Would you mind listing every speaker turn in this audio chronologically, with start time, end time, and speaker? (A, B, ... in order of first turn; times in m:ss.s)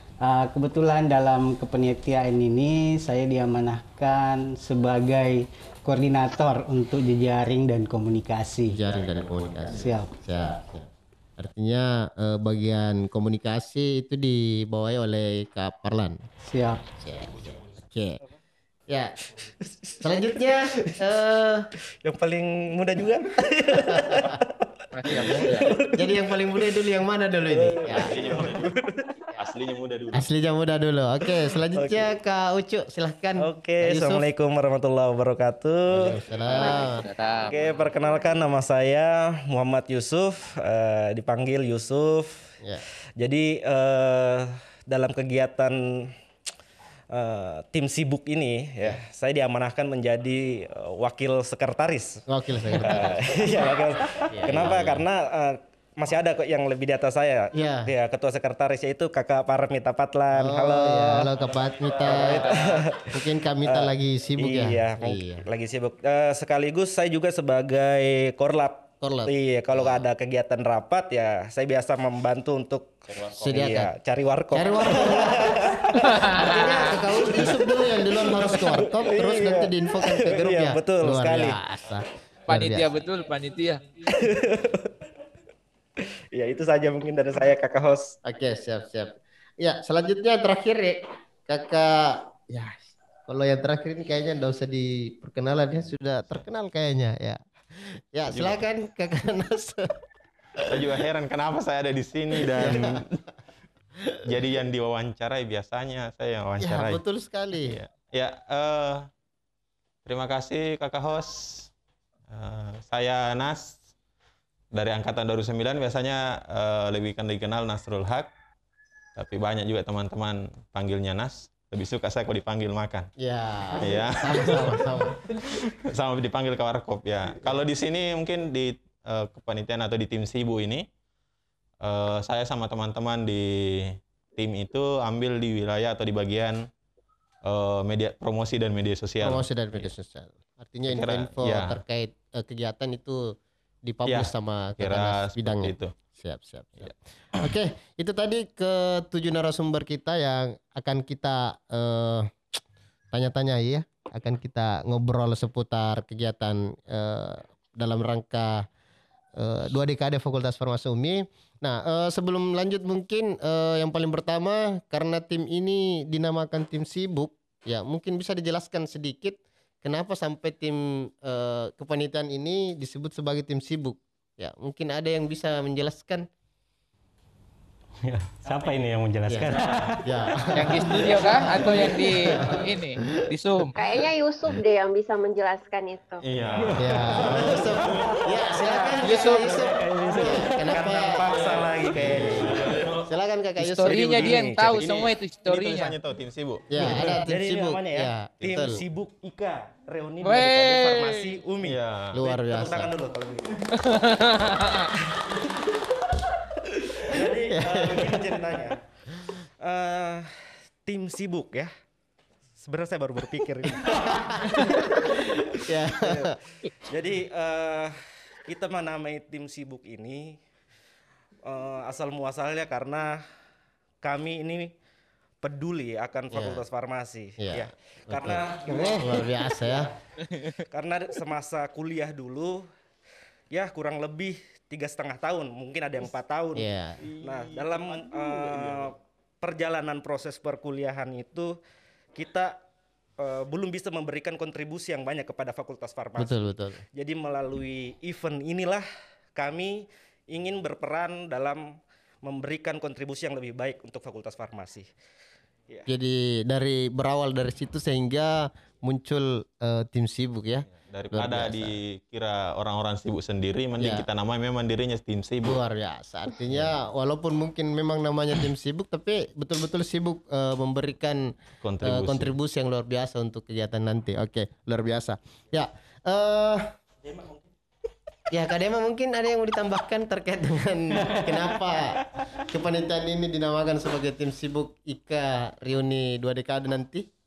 0:00.2-0:08.8 A
0:08.7-0:16.2 B
0:09.7-0:10.1 A
0:16.4-0:16.8 A
0:17.0-0:18.2 B
0:19.4-0:21.0 C
0:20.0-0:21.7 B
0:22.0-0:26.9 C
0:23.8-0:24.4 B
0:24.9-0:25.7 D
0:25.1-0:28.2 B
0:27.4-0:29.1 C
0:27.9-0:28.7 E
0:29.3-0:30.3 E
0:30.1-0:34.2 B
0:31.7-0:32.1 C
0:33.4-0:36.2 C
0:35.9-0:37.0 B
0:36.6-0:37.5 D
0:37.4-0:42.4 C
0:43.2-0:46.1 C
0:47.1-1:01.3 C
0:52.3-0:53.5 B
0:54.3-0:55.0 B
0:57.5-0:57.9 B
1:00.3-1:02.5 B
1:02.0-1:21.6 C
1:03.1-1:05.4 B
1:09.0-1:10.0 B
1:13.3-1:13.9 B
1:14.5-1:22.9 B
1:16.0-1:17.0 D
1:22.5-1:23.8 D
1:24.1-1:25.0 C
1:26.3-1:28.2 C
1:28.2-1:39.9 B
1:38.3-1:38.6 E
1:40.6-1:41.0 B
1:40.7-1:43.2 E
1:42.4-1:43.0 B
1:44.1-1:44.4 B
1:44.3-1:47.0 E
1:46.6-1:47.8 B
1:47.6-1:49.1 E
1:50.0-1:51.7 E
1:52.3-1:53.8 E
1:54.7-1:58.3 E
1:59.2-2:03.1 E
2:03.2-2:05.2 B
2:03.8-2:10.9 E
2:11.8-2:16.7 E
2:17.5-2:19.9 E
2:19.2-2:32.4 B
2:20.9-2:21.8 E
2:24.1-2:25.9 E
2:26.8-2:27.5 E
2:33.1-2:38.7 B
2:39.4-2:56.3 B
2:58.0-2:59.9 F
2:59.3-3:02.6 B
3:00.6-3:03.8 D
3:03.8-3:06.2 G
3:06.2-3:08.2 E
3:06.8-3:14.4 B
3:06.9-3:07.6 F
3:09.0-3:09.5 D
3:09.1-3:10.6 F
3:10.1-3:13.0 C
3:11.1-3:13.1 E
3:13.6-3:16.0 D
3:13.7-3:14.8 C
3:14.7-3:17.2 E
3:16.7-3:18.8 B
3:17.2-3:23.7 C
3:18.4-3:18.8 E
3:20.2-3:21.3 D
3:21.6-3:22.2 E
3:22.1-3:22.9 B
3:23.8-3:24.9 D
3:25.1-3:25.6 C
3:27.0-3:28.8 C
3:27.5-3:28.4 B
3:29.6-3:31.7 C
3:32.6-3:40.4 C
3:33.9-3:36.4 B
3:41.4-3:43.2 C
3:44.0-3:44.7 C
3:45.4-3:49.8 C
3:46.3-3:46.6 B
3:47.4-3:49.9 B
3:50.4-3:52.7 C
3:53.5-4:01.6 C
3:56.6-3:57.0 B
3:57.0-3:58.9 E
4:02.2-4:02.6 C
4:03.2-4:08.8 C
4:06.2-4:06.8 B
4:09.4-4:14.9 C
4:15.9-4:21.7 B
4:20.7-4:25.6 E
4:23.8-4:24.0 B
4:25.4-4:31.3 B
4:31.6-4:32.3 E
4:31.8-4:36.7 B
4:38.3-4:47.1 B